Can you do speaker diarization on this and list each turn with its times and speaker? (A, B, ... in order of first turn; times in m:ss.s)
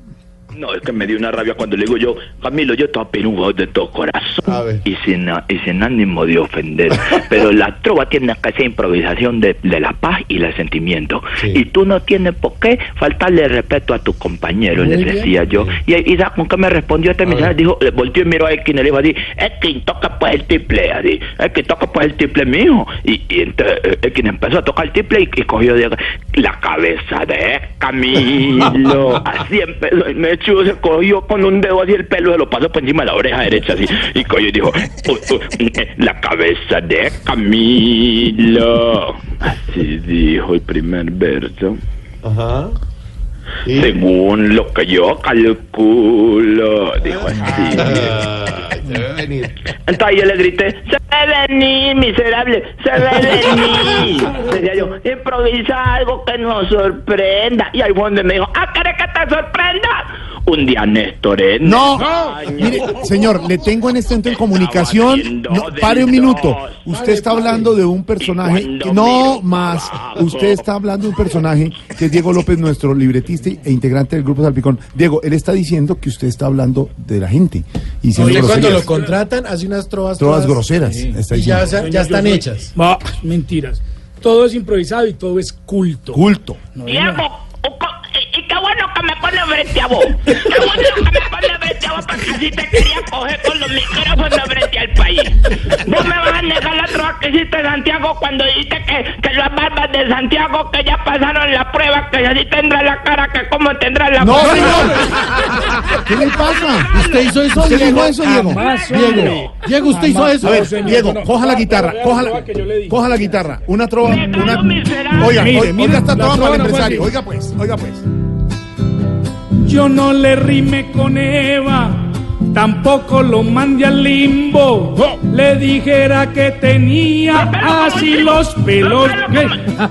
0:00.5-0:41.8 A
0:04.4-0:04.8 B
0:14.8-0:15.3 C
0:15.5-0:15.8 B
0:17.2-0:17.5 B
0:42.2-0:42.8 B
0:43.6-0:44.0 B
0:43.7-0:48.1 A
0:47.0-0:49.5 B
0:49.9-1:03.1 A
1:01.6-1:18.9 D
1:04.2-1:06.8 A
1:07.0-1:07.7 C
1:08.2-1:10.6 A
1:18.1-1:20.8 C
1:18.4-1:19.2 E
1:20.2-1:21.8 D
1:21.3-1:22.7 C
1:21.8-1:26.2 E
1:26.1-1:26.6 D
1:26.8-1:27.2 E
1:26.9-1:45.0 A
1:44.2-1:45.1 D
1:44.5-1:44.9 E
1:45.9-1:48.7 D
1:46.5-1:47.2 A
1:46.9-1:50.7 C
1:48.3-1:53.1 E
1:48.5-1:49.6 A
1:50.4-1:58.0 D
1:54.0-1:55.7 A
1:55.4-1:57.1 E
1:59.6-2:09.6 E
2:07.3-2:09.6 A